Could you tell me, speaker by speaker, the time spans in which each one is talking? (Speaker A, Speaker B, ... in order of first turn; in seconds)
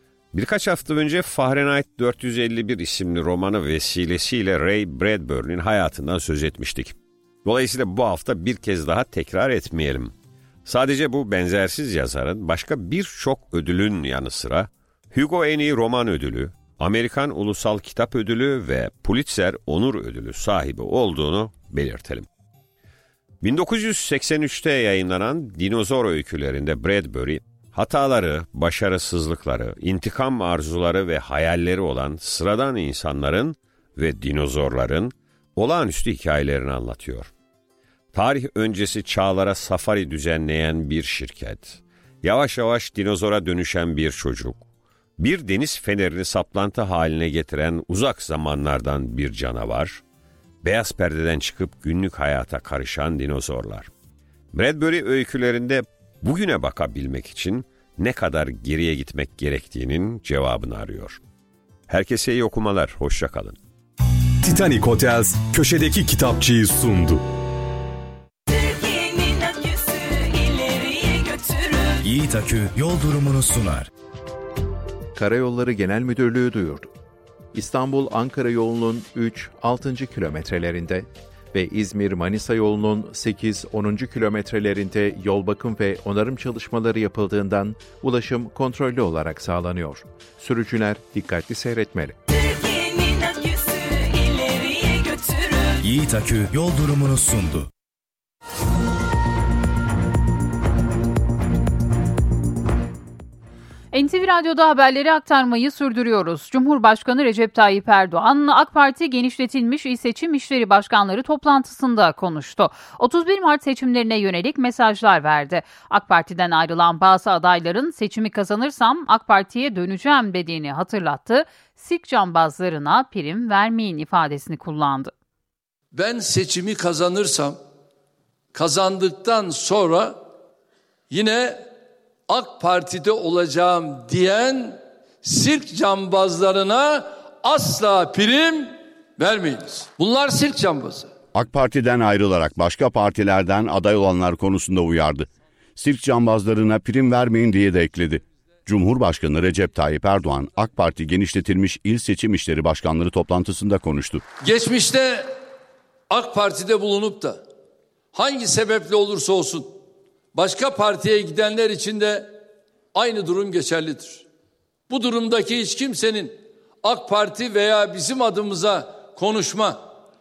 Speaker A: 0.3-10.1, 10.7-22.3, 23.4-37.3, 38.1-44.6, 45.2-50.0, 50.6-53.9, 54.5-61.2, 61.9-63.6
Speaker B: 64.4-67.2
Speaker C: 72.0-73.9, 95.8-97.7
Speaker D: 75.2-76.9, 77.5-92.2
Speaker E: 103.9-125.1
Speaker F: 125.9-127.6, 128.5-130.2, 131.1-131.7, 132.3-141.1, 154.4-155.4, 156.1-157.4, 158.1-159.8, 160.3-162.4, 162.9-164.2, 164.9-169.8
Speaker G: 141.3-154.2